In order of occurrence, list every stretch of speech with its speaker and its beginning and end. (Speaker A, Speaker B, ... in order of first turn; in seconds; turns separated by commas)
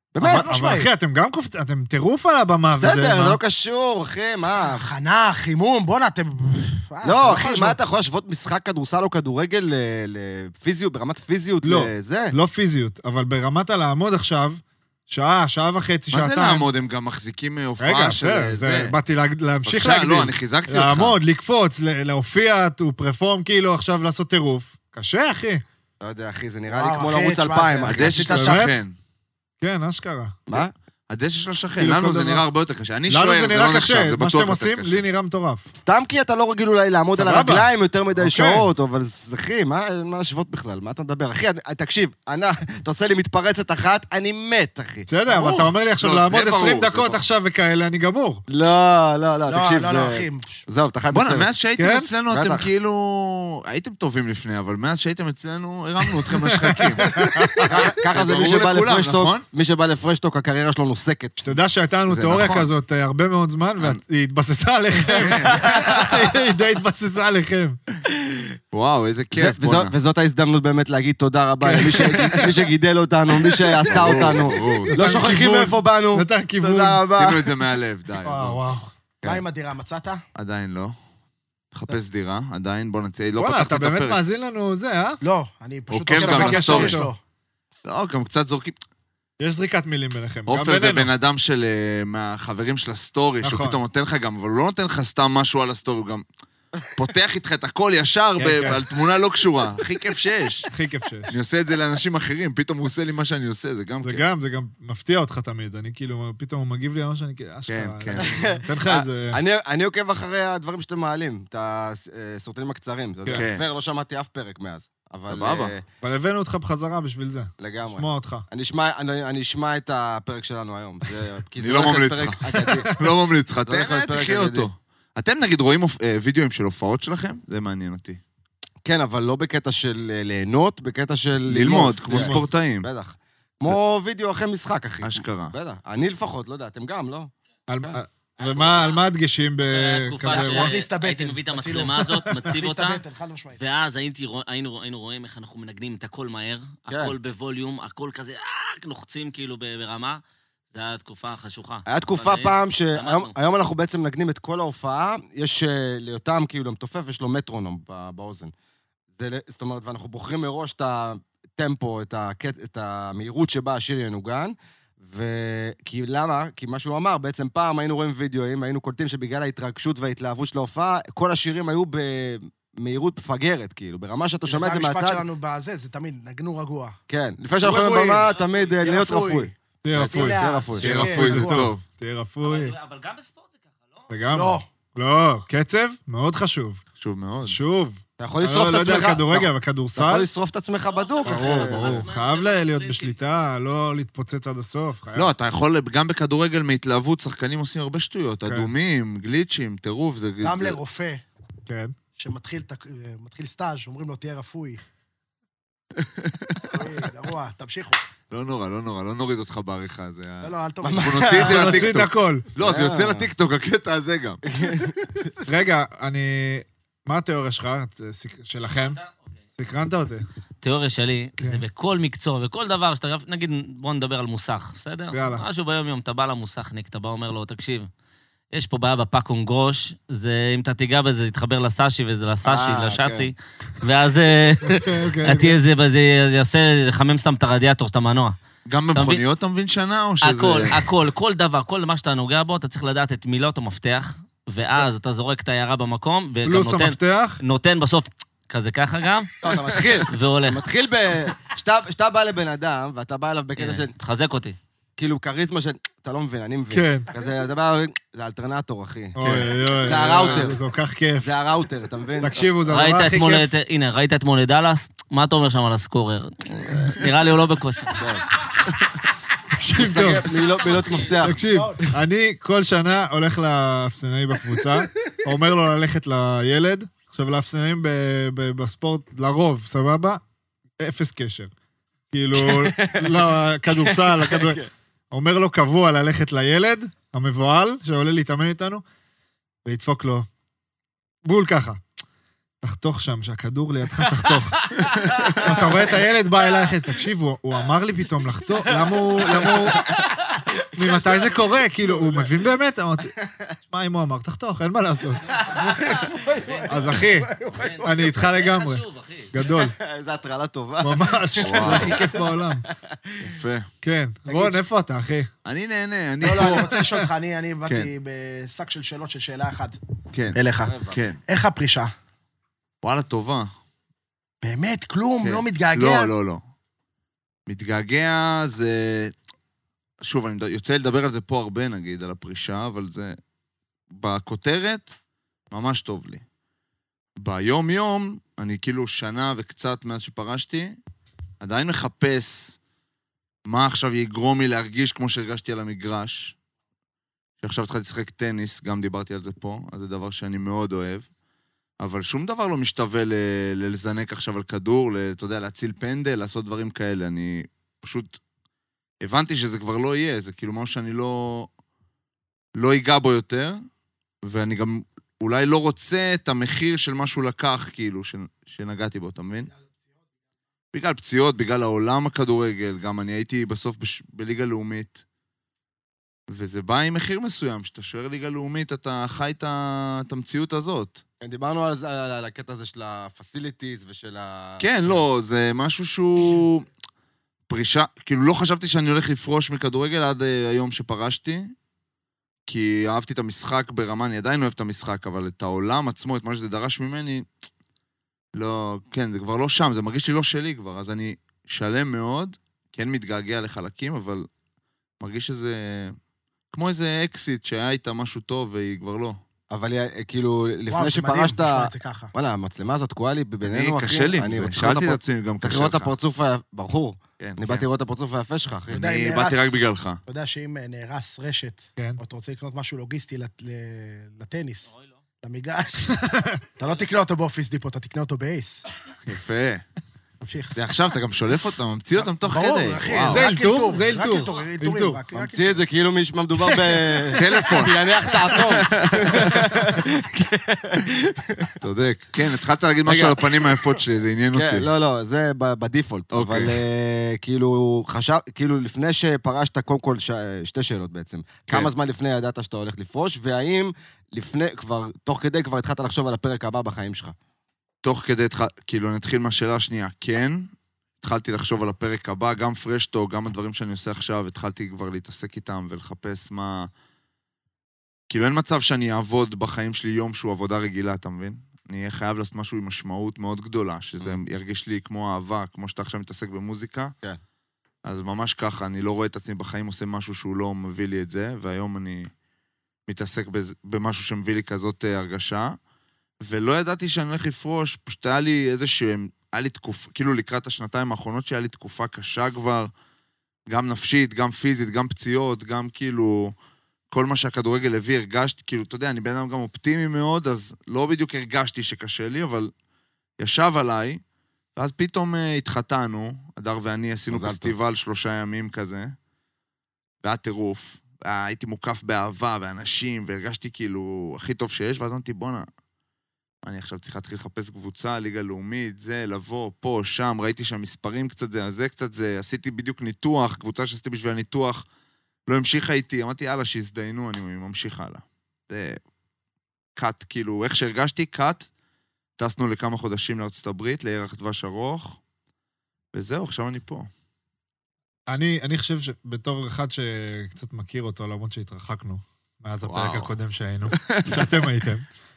Speaker A: 0.1-0.5, Speaker B: 0.2-3.4, Speaker C: 0.2-0.9, Speaker A: 2.8-4.9, Speaker C: 4.6-7.8, Speaker A: 7.0-12.3, Speaker B: 11.6-16.7, Speaker D: 16.1-19.0, Speaker B: 17.8-25.6, Speaker D: 19.6-21.2, Speaker A: 26.0-28.6, Speaker C: 26.7-28.7, Speaker D: 27.9-28.9, Speaker B: 28.4-28.8, Speaker B: 29.6-30.4, Speaker D: 30.5-35.0, Speaker B: 31.8-32.5, Speaker B: 33.1-35.7, Speaker A: 35.7-45.1, Speaker B: 37.1-38.7, Speaker B: 45.1-48.4, Speaker C: 45.3-45.7, Speaker D: 46.0-47.2, Speaker A: 48.5-51.5, Speaker C: 49.5-50.6, Speaker D: 51.1-59.5, Speaker B: 51.8-52.1, Speaker A: 52.3-52.7, Speaker B: 56.3-57.7, Speaker A: 57.6-61.5, Speaker B: 61.4-67.8, Speaker D: 62.1-62.7, Speaker A: 62.2-62.7, Speaker D: 65.1-66.2, Speaker A: 68.1-68.5, Speaker D: 68.7-69.9, Speaker A: 69.3-77.6, Speaker B: 71.6-72.6, Speaker D: 72.1-72.5, Speaker D: 73.8-75.3, Speaker B: 73.9-77.0, Speaker D: 77.1-78.6, Speaker B: 78.2-78.9, Speaker C: 79.2-80.2, Speaker D: 80.3-80.9, Speaker D: 81.7-84.2, Speaker B: 83.4-85.2, Speaker C: 85.2-87.2, Speaker D: 85.9-87.0, Speaker B: 86.1-87.1, Speaker D: 87.8-88.8, Speaker B: 89.4-91.1, Speaker D: 90.5-96.2, Speaker B: 93.4-93.8, Speaker D: 97.0-100.7, Speaker B: 98.4-98.8, Speaker B: 100.7-101.3, Speaker D: 101.3-104.2, Speaker B: 104.0-109.4, Speaker D: 107.7-108.4, Speaker A: 108.1-115.8, Speaker D: 113.3-113.6, Speaker D: 115.3-115.8, Speaker B: 116.0-118.5, Speaker A: 117.6-123.0, Speaker D: 121.6-128.2, Speaker B: 122.5-123.1, Speaker A: 123.6-124.7, Speaker A: 128.8-138.0, Speaker D: 131.5-132.9, Speaker B: 132.1-132.5, Speaker D: 135.0-135.6, Speaker B: 137.7-140.8, Speaker E: 138.4-139.0, Speaker E: 139.6-143.0, Speaker C: 140.3-143.6, Speaker E: 143.5-150.2, Speaker A: 146.9-147.1, Speaker E: 150.7-153.3, Speaker A: 151.9-158.5, Speaker A: 159.2-175.3, Speaker C: 174.5-177.0, Speaker A: 177.1-181.0, Speaker C: 177.6-178.3, Speaker E: 178.2-178.8, Speaker C: 178.8-179.5, Speaker B: 179.8-182.8, Speaker C: 180.1-181.7, Speaker D: 180.8-181.8, Speaker E: 182.4-184.1, Speaker B: 184.1-186.8, Speaker C: 184.3-184.7, Speaker D: 186.9-187.6, Speaker B: 187.4-190.3, Speaker A: 188.2-192.1, Speaker E: 190.8-193.3, Speaker B: 191.2-195.3, Speaker D: 195.2-200.8, Speaker B: 198.5-198.7, Speaker C: 200.4-201.2, Speaker B: 201.7-201.9, Speaker C: 202.2-204.8, Speaker D: 206.0-206.8, Speaker C: 206.7-208.0, Speaker D: 208.3-214.4, Speaker C: 210.4-211.5, Speaker A: 210.8-211.9, Speaker B: 211.4-212.5, Speaker A: 212.6-213.3, Speaker A: 214.5-215.2, Speaker B: 215.4-219.0, Speaker B: 219.6-220.3, Speaker E: 220.6-227.9, Speaker B: 225.1-225.4, Speaker E: 228.5-238.4, Speaker A: 232.4-233.3, Speaker B: 234.7-235.6, Speaker D: 238.7-240.8, Speaker E: 238.9-239.2, Speaker E: 240.2-250.7, Speaker B: 246.4-247.4, Speaker A: 249.4-253.9, Speaker E: 253.6-254.6, Speaker A: 255.0-260.6, Speaker B: 256.7-257.1, Speaker B: 259.2-261.3, Speaker A: 261.2-262.5, Speaker B: 262.2-263.5, Speaker E: 262.7-268.1, Speaker A: 267.9-268.3, Speaker B: 269.5-270.3, Speaker A: 269.8-271.9, Speaker E: 270.2-271.2, Speaker B: 271.2-280.2, Speaker C: 271.4-271.8, Speaker B: 280.8-281.5, Speaker B: 282.1-284.6, Speaker A: 282.4-284.7, Speaker B: 285.1-288.8, Speaker B: 289.6-290.3, Speaker B: 291.2-291.8, Speaker B: 292.6-294.7, Speaker A: 294.2-295.8, Speaker B: 295.3-299.9, Speaker A: 299.3-300.2, Speaker B: 300.7-305.6, Speaker C: 305.6-308.0, Speaker E: 306.2-307.0, Speaker B: 306.7-307.3, Speaker E: 307.6-309.3, Speaker B: 307.8-309.8, Speaker A: 309.4-313.3, Speaker B: 310.8-312.6, Speaker D: 311.4-312.0, Speaker D: 313.2-313.7, Speaker B: 313.8-315.3, Speaker C: 314.3-314.6, Speaker D: 315.4-316.8, Speaker C: 316.2-319.8, Speaker B: 316.5-317.1, Speaker D: 320.1-321.2, Speaker C: 320.3-321.9, Speaker E: 320.6-320.9, Speaker D: 322.8-323.5, Speaker C: 324.4-326.1, Speaker D: 325.2-326.4, Speaker D: 327.5-329.1, Speaker D: 330.0-333.2, Speaker D: 333.9-334.9, Speaker D: 335.5-336.2, Speaker D: 337.2-340.8, Speaker D: 341.4-342.6, Speaker D: 343.5-346.4, Speaker D: 347.4-351.1, Speaker D: 351.8-358.2, Speaker D: 359.0-361.5, Speaker D: 362.6-363.6, Speaker D: 364.2-369.5, Speaker D: 370.7-375.0, Speaker D: 376.3-381.0, Speaker A: 381.2-385.0, Speaker D: 384.6-386.7, Speaker D: 387.5-391.5, Speaker D: 392.5-397.3, Speaker D: 398.4-404.3, Speaker D: 405.0-406.0, Speaker D: 406.5-409.2, Speaker A: 409.5-418.9, Speaker C: 410.7-412.1, Speaker D: 413.4-415.9, Speaker D: 417.2-417.7, Speaker D: 418.7-420.0, Speaker C: 418.7-424.7, Speaker E: 424.7-424.9, Speaker C: 425.2-428.6, Speaker B: 426.0-426.4, Speaker D: 429.1-429.6, Speaker C: 430.2-430.6, Speaker D: 430.6-433.3, Speaker C: 432.0-435.6, Speaker B: 433.0-435.0, Speaker A: 435.1-441.5, Speaker D: 437.1-439.5, Speaker D: 441.6-444.7, Speaker A: 442.9-443.6, Speaker A: 444.3-457.1, Speaker D: 446.1-446.6, Speaker D: 457.8-460.5, Speaker D: 461.0-466.7, Speaker D: 468.1-476.9, Speaker D: 477.8-482.1, Speaker D: 482.9-485.6, Speaker D: 486.2-492.7, Speaker D: 493.5-496.4, Speaker D: 496.9-502.5, Speaker D: 503.2-504.0, Speaker D: 504.6-508.9, Speaker A: 507.1-507.5, Speaker D: 510.0-515.5, Speaker D: 516.4-524.7, Speaker D: 525.3-528.8, Speaker D: 529.8-531.5, Speaker D: 532.2-535.0, Speaker D: 535.9-536.9, Speaker B: 538.1-544.9, Speaker D: 542.6-543.1, Speaker D: 543.8-544.2